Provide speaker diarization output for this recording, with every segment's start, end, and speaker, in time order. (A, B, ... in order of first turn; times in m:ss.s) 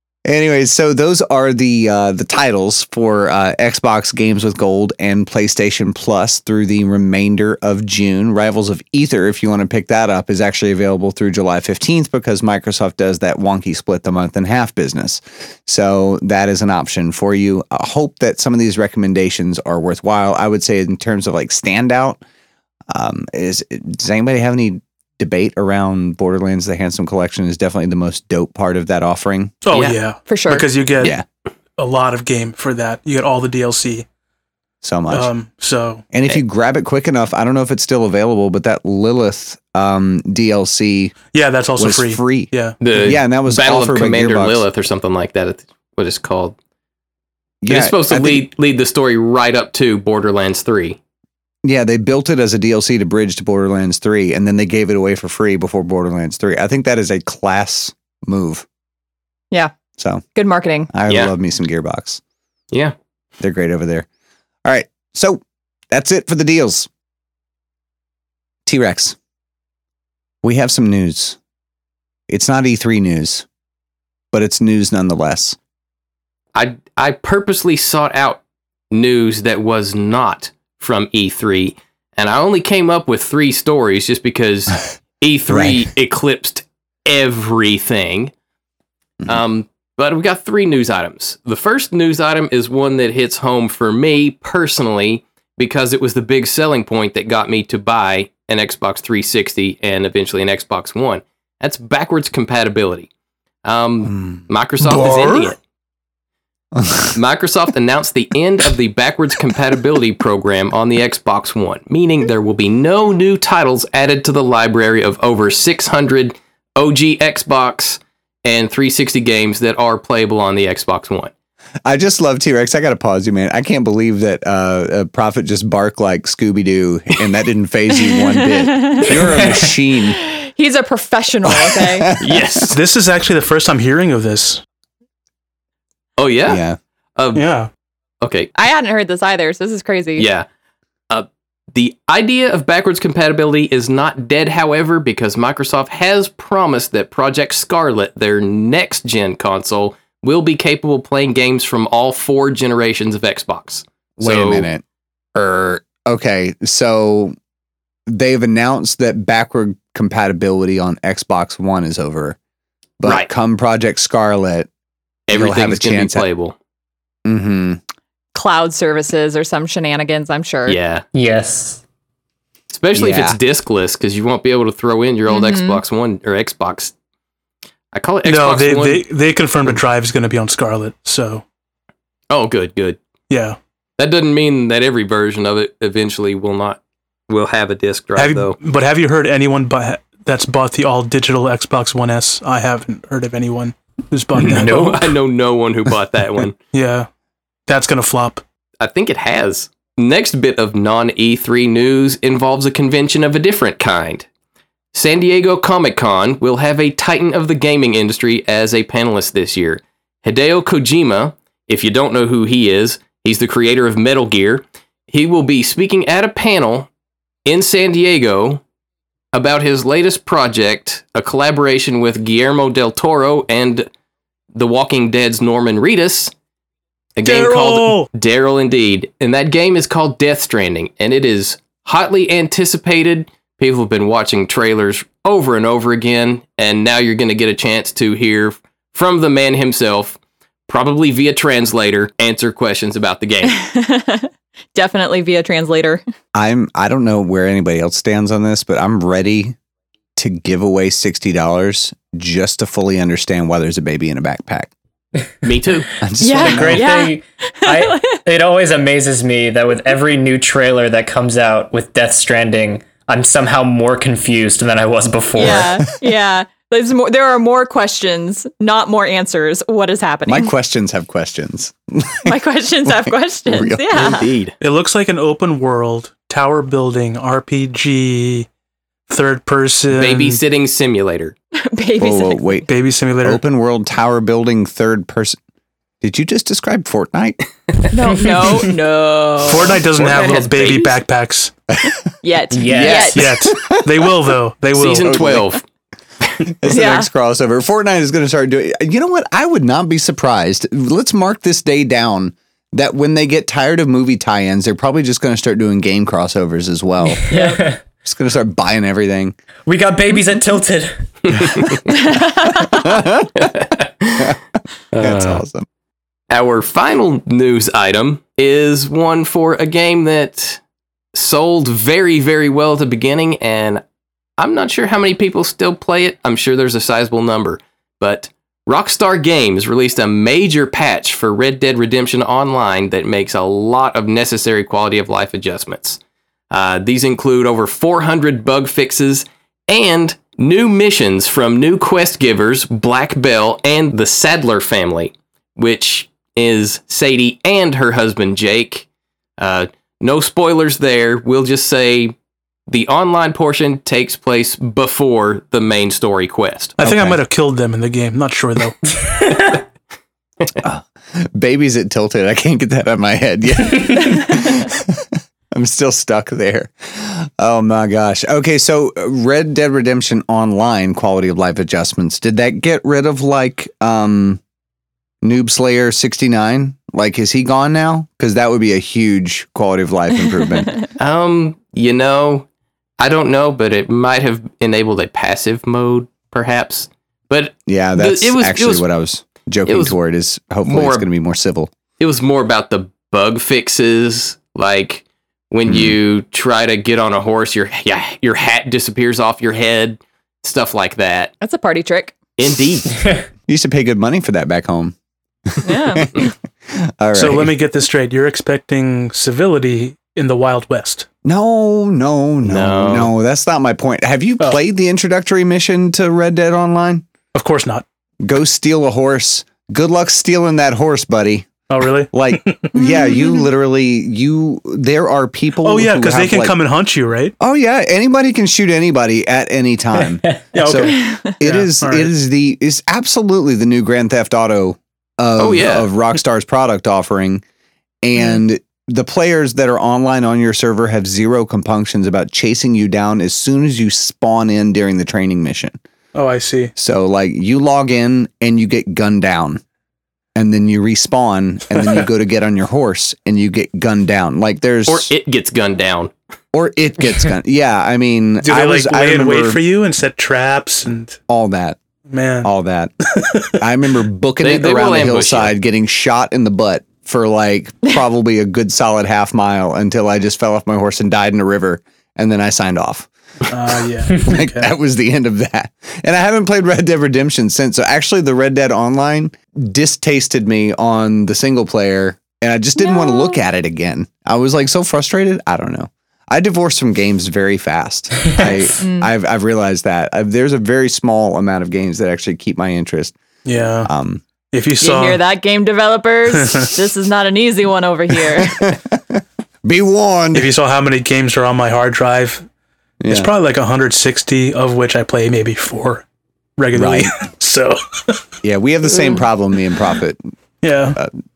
0:00.2-0:22.2 A
0:22.9-0:29.6 A
0:29.6-0:31.2 B
0:30.3-0:30.7 C
0:31.0-0:31.2 A
0:31.8-0:34.1 B
0:34.8-0:35.3 A
0:35.1-0:36.0 B
0:36.1-0:41.2 A
0:41.3-0:43.1 B
0:41.8-0:44.6 A
0:42.8-0:46.6 D
0:47.6-0:48.5 A
0:47.7-0:51.0 D
0:51.6-0:58.7 A
1:00.0-1:00.3 A
1:00.4-1:00.9 C
1:00.9-1:02.2 A
1:03.4-1:04.1 A
1:04.6-1:06.9 A
1:08.7-1:09.2 A
1:10.4-1:11.4 A
1:12.3-1:13.5 A
1:14.3-1:15.6 A
1:16.6-1:18.4 D
1:18.9-1:28.3 D
1:25.5-1:25.9 A
1:29.3-1:43.1 D
1:43.6-1:45.6 D
1:44.1-1:45.4 A
1:46.8-1:47.2 A
1:47.1-2:01.3 D
2:01.9-2:10.2 A
2:08.1-2:12.1 C
2:11.5-2:12.7 A
2:12.2-2:12.8 D
2:12.7-2:14.6 B
2:16.2-2:16.6 D
2:16.5-2:16.8 A
2:17.2-2:17.4 D
2:17.3-2:17.7 B
2:18.2-2:18.5 D
2:18.6-2:20.3 C
2:20.2-2:20.5 D
2:21.1-2:34.7 D
2:34.2-2:34.8 A
2:35.4-2:37.4 A
2:38.1-2:42.4 A
2:43.0-2:44.7 A
2:43.0-2:43.3 D
2:45.3-2:46.6 D
2:45.3-2:46.3 A
2:47.2-2:47.8 A
2:48.3-2:50.8 C
2:50.7-2:51.0 D
2:51.1-2:51.8 E
2:52.7-2:56.9 D
2:53.0-2:53.4 A
2:55.3-2:55.8 C
2:57.9-2:59.0 D
2:58.2-3:01.4 B
3:02.3-3:03.0 D
3:03.3-3:03.6 B
3:04.0-3:08.6 D
3:08.2-3:15.2 B
3:14.4-3:16.6 D
3:16.7-3:17.1 B
3:17.7-3:18.4 B
3:18.8-3:24.3 D
3:24.9-3:36.9 D
3:37.5-3:38.6 D
3:39.3-3:43.9 D
3:44.5-3:46.3 D
3:47.2-4:03.6 D
3:47.2-3:48.1 B
4:03.4-4:06.0 C
4:06.3-4:09.6 A
4:10.2-4:14.7 A
4:15.4-4:15.9 D
4:16.0-4:16.9 A
4:16.2-4:18.2 C
4:16.3-4:25.8 E
4:25.4-4:30.5 C
4:30.3-4:34.2 A
4:32.3-4:34.3 C
4:34.0-4:34.6 D
4:34.6-4:38.5 B
4:39.1-4:40.4 B
4:39.9-4:41.4 D
4:41.7-4:42.6 C
4:42.0-4:42.7 A
4:42.7-4:43.4 B
4:43.2-4:45.4 A
4:46.0-4:47.4 A
4:47.9-4:49.8 C
4:48.0-4:48.6 E
4:49.5-4:51.6 B
4:50.0-4:51.0 D
4:52.2-4:53.4 C
4:52.5-4:53.1 E
4:52.8-4:53.1 D
4:52.9-4:54.1 A
4:53.1-4:55.4 B
4:54.8-4:55.6 D
4:55.0-4:55.4 A
4:56.4-5:07.3 A
4:56.7-4:57.1 C
5:07.3-5:07.8 E
5:08.0-5:09.4 A
5:09.7-5:11.8 E
5:11.3-5:11.8 D
5:12.0-5:12.9 C
5:12.7-5:13.3 A
5:13.4-5:14.4 D
5:14.9-5:15.4 D
5:15.0-5:15.7 A
5:16.3-5:20.6 D
5:21.1-5:23.8 D
5:24.4-5:36.0 D
5:36.5-5:48.9 D
5:49.4-5:52.2 D
5:52.7-5:56.8 D
5:56.8-5:58.8 B
5:56.8-5:57.2 A
6:00.6-6:14.4 A
6:15.2-6:20.8 A
6:21.0-6:22.5 D
6:23.0-6:28.8 D
6:27.7-6:31.7 A
6:29.7-6:30.0 D
6:30.7-6:31.1 D
6:32.0-6:41.3 D
6:35.7-6:36.0 A
6:41.4-6:42.2 C
6:42.4-6:42.9 D
6:43.5-6:45.0 A
6:45.5-6:47.5 A
6:45.6-6:46.3 C
6:47.2-6:51.1 B
6:51.2-6:57.1 A
6:52.4-6:53.1 D
6:57.3-6:57.8 B
6:58.2-7:01.5 A
7:01.7-7:02.8 B
7:02.1-7:06.6 A
7:05.6-7:07.4 B
7:07.4-7:17.4 A
7:10.5-7:12.1 B
7:10.9-7:11.3 C
7:15.4-7:15.9 D
7:18.0-7:25.8 A
7:26.1-7:26.7 B
7:26.8-7:29.6 A
7:30.4-7:35.1 A
7:34.9-7:36.1 D
7:36.5-7:39.6 A
7:38.4-7:41.2 B
7:41.3-7:41.8 A
7:42.1-7:42.5 B
7:42.4-7:42.9 A
7:43.2-7:43.6 B
7:43.6-7:53.1 A
7:44.4-7:45.5 D
7:53.5-7:54.7 B
7:54.2-8:13.2 A
8:02.8-8:03.4 C
8:08.8-8:09.1 C
8:13.4-8:13.9 B
8:13.8-8:14.2 A
8:14.5-8:15.2 B
8:14.8-8:18.8 C
8:16.3-8:16.7 B
8:18.4-8:20.5 A
8:20.3-8:22.5 B
8:23.0-8:23.3 A
8:23.1-8:26.0 B
8:26.6-8:28.2 B
8:26.7-8:27.2 A
8:28.4-8:30.2 A
8:30.6-8:31.0 B